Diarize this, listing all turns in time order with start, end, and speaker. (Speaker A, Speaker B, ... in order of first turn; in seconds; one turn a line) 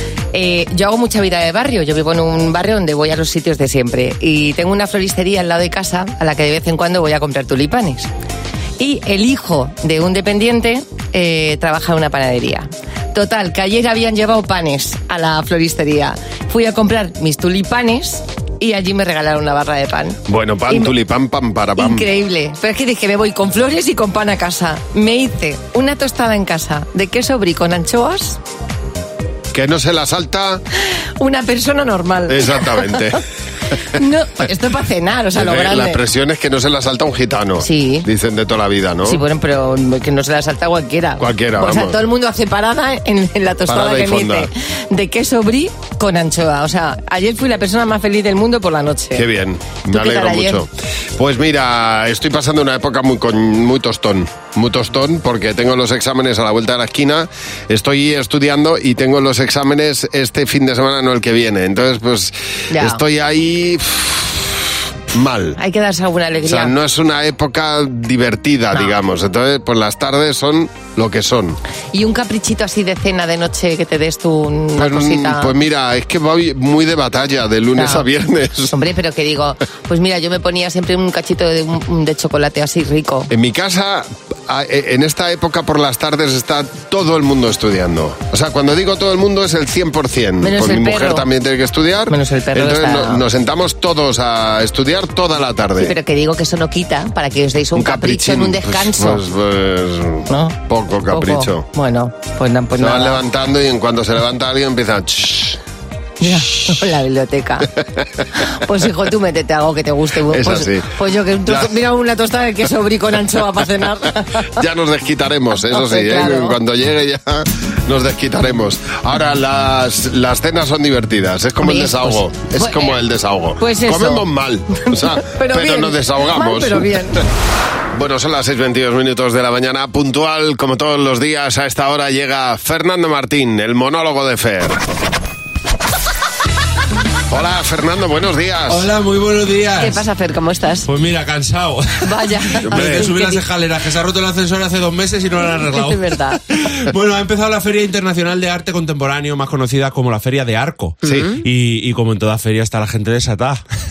Speaker A: 0.3-8.1
Speaker A: 8.8-20.9
Speaker B: 20.3-22.1
Speaker A: 21.8-28.4
Speaker B: 29.5-30.6
Speaker A: 31.2-32.9
Speaker B: 32.3-33.2
Speaker A: 33.9-36.0
Speaker B: 35.4-39.2
Speaker A: 37.6-38.1
Speaker A: 39.0-49.2
Speaker B: 41.2-42.0
Speaker B: 43.7-44.5
Speaker B: 49.1-65.6
Speaker A: 49.9-50.6
Speaker A: 62.7-63.0
Speaker A: 65.6-66.7
Speaker B: 66.4-71.6
Speaker A: 71.9-75.5
Speaker B: 74.8-78.7
Speaker A: 77.8-78.0
Speaker A: 78.7-83.3
Speaker B: 83.3-95.9
Speaker A: 90.4-91.2
Speaker A: 92.1-93.2
Speaker A: 95.8-99.2
Speaker B: 97.8-101.6
Speaker A: 100.3-100.6
Speaker A: 101.1-103.2
Speaker B: 102.8-105.6
Speaker A: 106.2-107.7
Speaker A: 108.4-114.5
Speaker B: 110.3-110.9
Speaker B: 114.6-126.9
Speaker A: 115.7-116.6
Speaker A: 121.6-123.0
Speaker A: 123.6-124.2
Speaker A: 125.2-127.2
Speaker B: 127.9-134.8
Speaker B: 137.3-138.9
Speaker C: 138.7-140.0
Speaker A: 139.8-140.9
Speaker C: 140.8-153.6
Speaker A: 142.0-143.4
Speaker B: 142.7-143.1
Speaker A: 145.6-146.4
Speaker B: 151.0-151.3
Speaker A: 151.1-151.4